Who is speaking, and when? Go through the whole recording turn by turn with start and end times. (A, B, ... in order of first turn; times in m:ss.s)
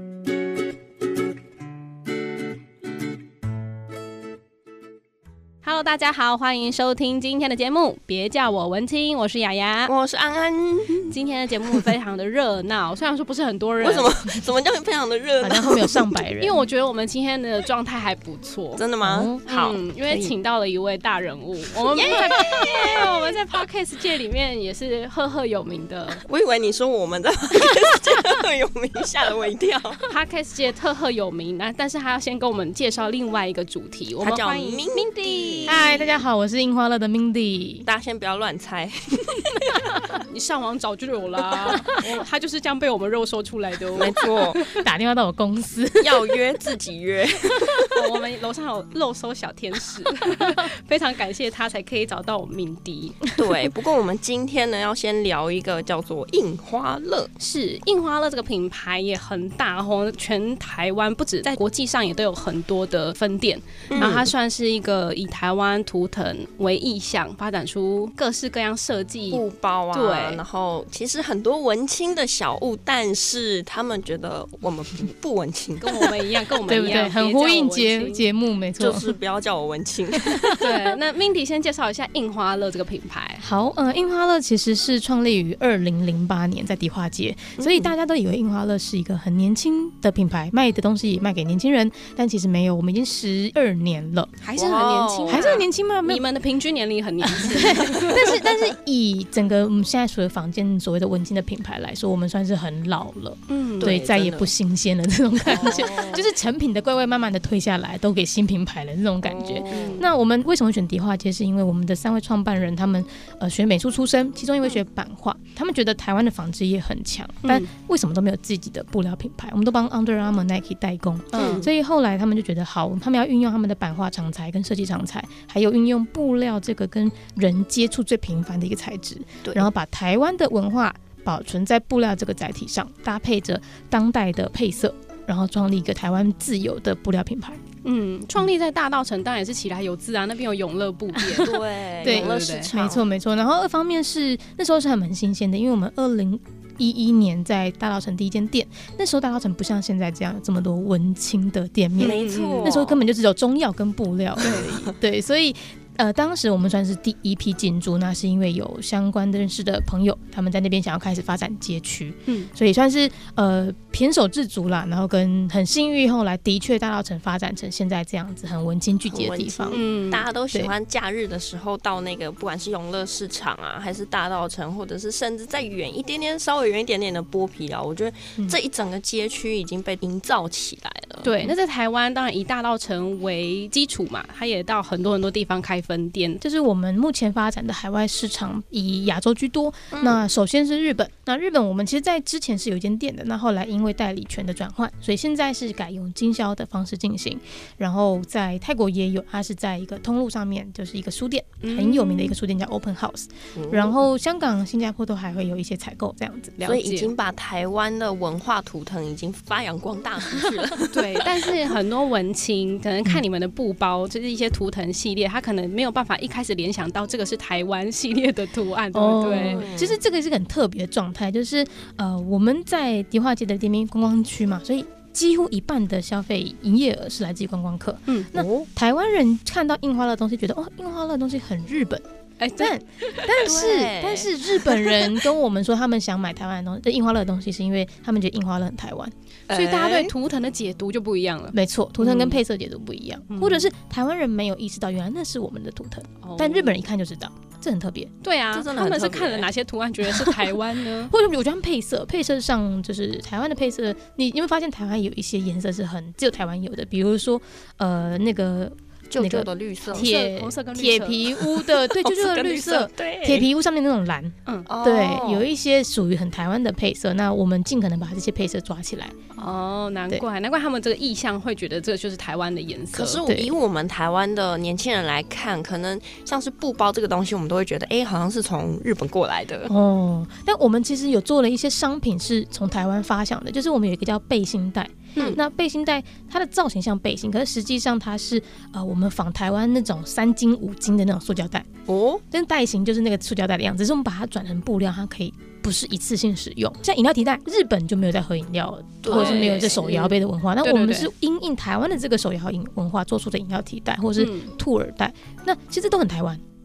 0:05.6-0:09.9 A
0:09.9-0:11.1 B
0:11.0-0:14.1 A
0:13.8-0:16.2 B
0:15.4-0:16.6 C
0:16.4-0:18.8 A
0:18.8-0:20.3 B
0:19.0-0:19.4 C
0:19.4-0:26.2 A
0:21.9-0:23.1 B
0:26.3-0:30.0 B
0:30.1-0:35.9 A
0:34.2-0:36.2 B
0:35.7-0:37.9 C
0:37.8-0:40.0 B
0:40.1-0:44.6 A
0:41.5-0:42.0 B
0:44.0-0:44.6 B
0:44.7-0:46.4 C
0:46.0-0:48.0 B
0:47.9-0:53.2 A
0:53.4-0:57.3 B
0:57.4-1:10.4 A
1:03.9-1:04.3 B
1:09.3-1:16.1 B
1:15.8-1:18.3 A
1:16.7-1:19.1 C
1:18.8-1:20.5 B
1:20.1-1:20.8 C
1:20.6-1:23.4 A
1:23.4-1:34.3 C
1:27.6-1:27.9 B
1:34.4-1:38.3 A
1:34.6-1:35.5 B
1:35.3-1:36.2 C
1:37.3-2:17.6 C
1:43.5-1:44.0 A
1:43.8-1:44.5 B
1:45.5-1:46.2 B
1:49.2-1:50.0 B
1:49.7-1:50.0 A
1:57.4-1:57.7 A
2:01.3-2:01.6 A
2:01.4-2:01.7 B
2:09.4-2:09.7 B
2:17.8-2:22.7 A
2:21.4-2:49.8 C
2:21.4-2:23.1 B
2:32.0-2:33.0 B
2:32.0-2:32.8 A
2:34.4-2:34.7 B
2:49.1-3:01.5 B
2:49.7-2:50.2 A
3:01.2-3:06.4 A
3:06.4-3:26.6 C
3:09.9-3:10.2 B
3:21.6-3:22.4 A
3:23.6-3:24.0 B
3:26.6-3:27.1 A
3:26.6-3:31.4 B
3:30.9-3:39.7 A
3:38.9-3:52.0 C
3:39.2-3:40.0 B
3:48.1-3:48.3 A
3:48.4-3:48.6 B
3:52.4-3:52.7 A
3:52.6-3:59.1 C
3:53.4-3:54.5 B
3:59.5-4:00.1 B
3:59.5-4:02.4 A
3:59.6-4:00.1 C
4:01.5-4:08.1 C
4:03.3-4:03.7 A
4:06.2-4:06.8 A
4:08.2-4:11.1 A
4:08.5-4:09.5 B
4:10.1-4:10.6 C
4:11.1-4:29.1 C
4:19.1-4:20.1 B
4:19.9-4:21.2 A
4:21.4-4:23.5 B
4:24.6-4:25.5 B
4:29.3-4:33.2 A
4:32.9-4:39.7 B
4:33.3-4:33.5 C
4:39.7-4:51.7 C
4:45.2-4:45.4 B
4:51.9-4:52.2 B
4:52.3-5:06.4 C
4:59.0-5:00.1 B
4:59.1-5:01.1 A
5:04.2-5:04.5 A